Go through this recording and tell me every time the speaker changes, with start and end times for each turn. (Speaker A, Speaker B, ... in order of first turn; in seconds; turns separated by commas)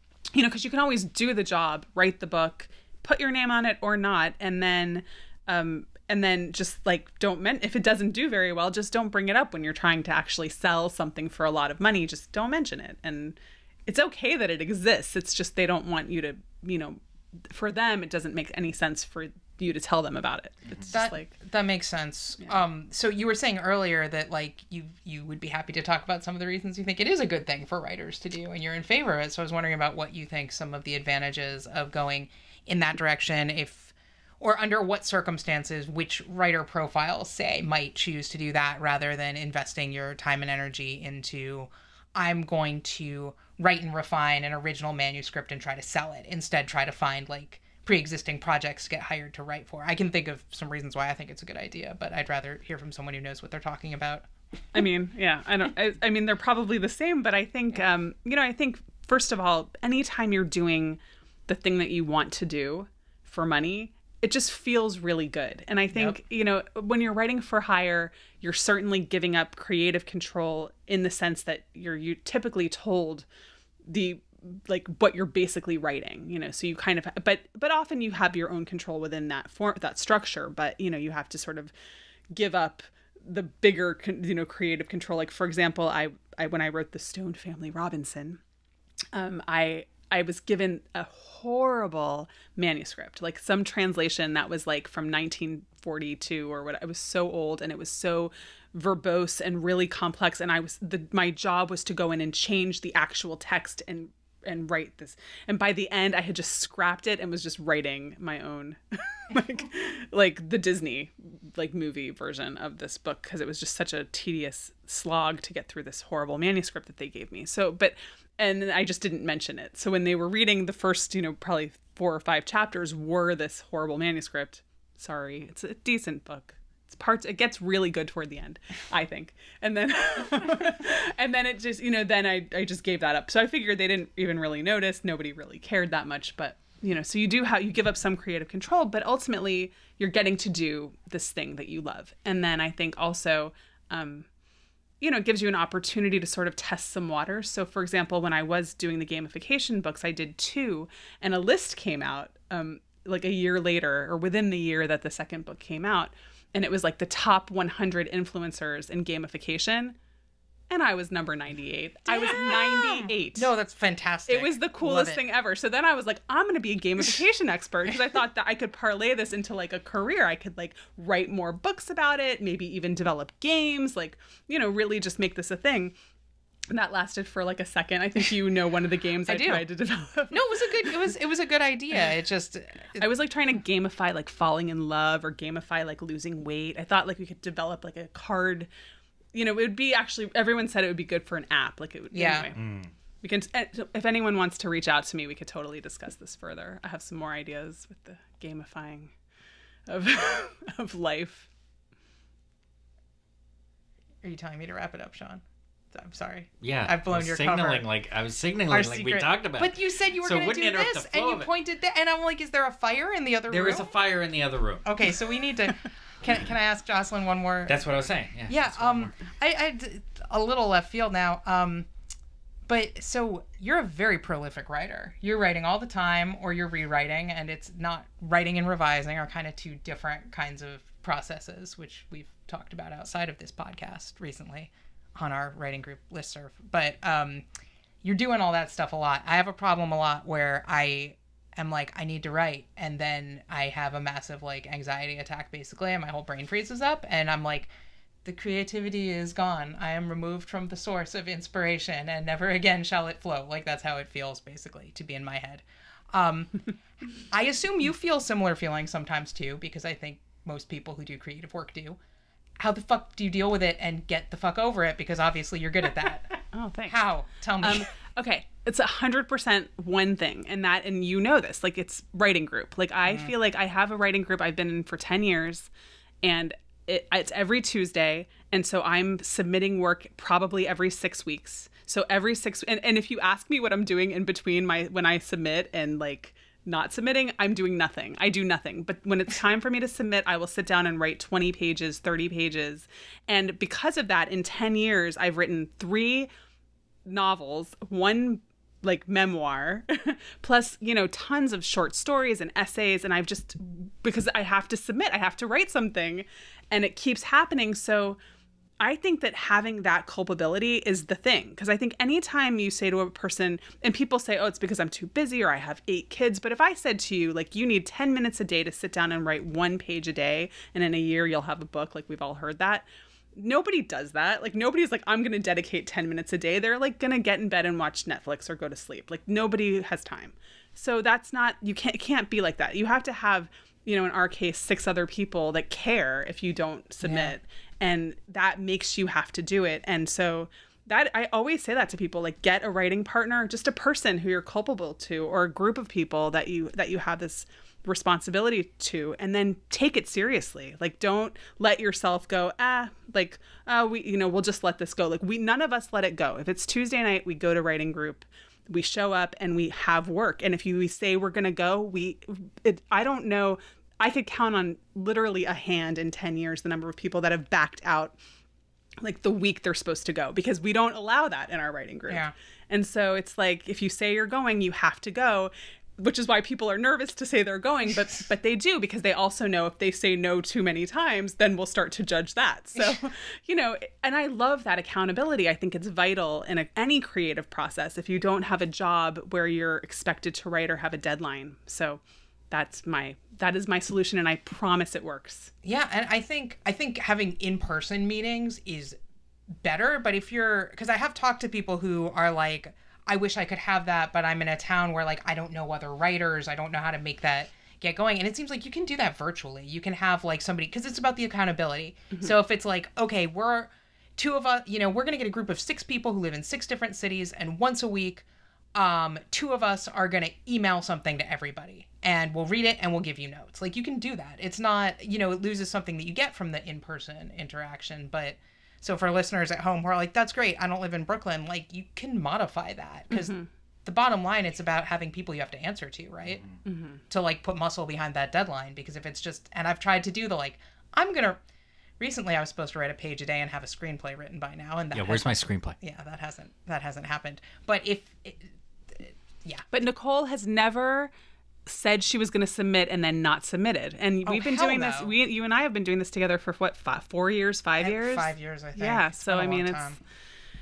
Speaker A: 0.3-21.3, Speaker B: 20.9-54.3, Speaker A: 54.7-73.2, Speaker A: 73.9-81.7, Speaker A: 82.3-88.4, Speaker A: 89.1-144.3, Speaker A: 145.0-159.9, Speaker A: 160.7-163.5, Speaker B: 162.1-165.2, Speaker A: 164.3-175.9, Speaker A: 176.7-180.9, Speaker B: 179.3-179.6, Speaker B: 180.3-183.0, Speaker A: 183.0-188.7, Speaker A: 189.3-192.6, Speaker B: 192.1-192.5, Speaker C: 192.5-192.9, Speaker A: 193.2-199.1, Speaker A: 199.9-201.5, Speaker B: 204.2-207.8, Speaker C: 206.6-211.5, Speaker B: 208.7-213.9, Speaker C: 213.5-214.8, Speaker B: 214.8-217.8, Speaker C: 217.7-219.1, Speaker B: 218.5-221.9, Speaker B: 222.7-237.4, Speaker B: 238.0-247.7, Speaker B: 248.2-256.6, Speaker B: 257.1-262.0, Speaker B: 262.6-267.9, Speaker A: 266.5-267.1, Speaker A: 267.6-275.7, Speaker B: 273.1-273.3, Speaker A: 276.2-296.3, Speaker A: 297.0-308.2, Speaker A: 308.8-368.2, Speaker B: 337.0-337.4, Speaker A: 369.0-395.5, Speaker B: 395.6-399.0, Speaker B: 399.6-436.4, Speaker A: 433.1-433.4, Speaker A: 436.6-437.0, Speaker B: 437.1-441.4, Speaker B: 442.0-449.6, Speaker C: 444.9-445.8, Speaker A: 449.7-451.1, Speaker A: 451.6-459.9, Speaker B: 454.2-455.1, Speaker B: 457.8-460.0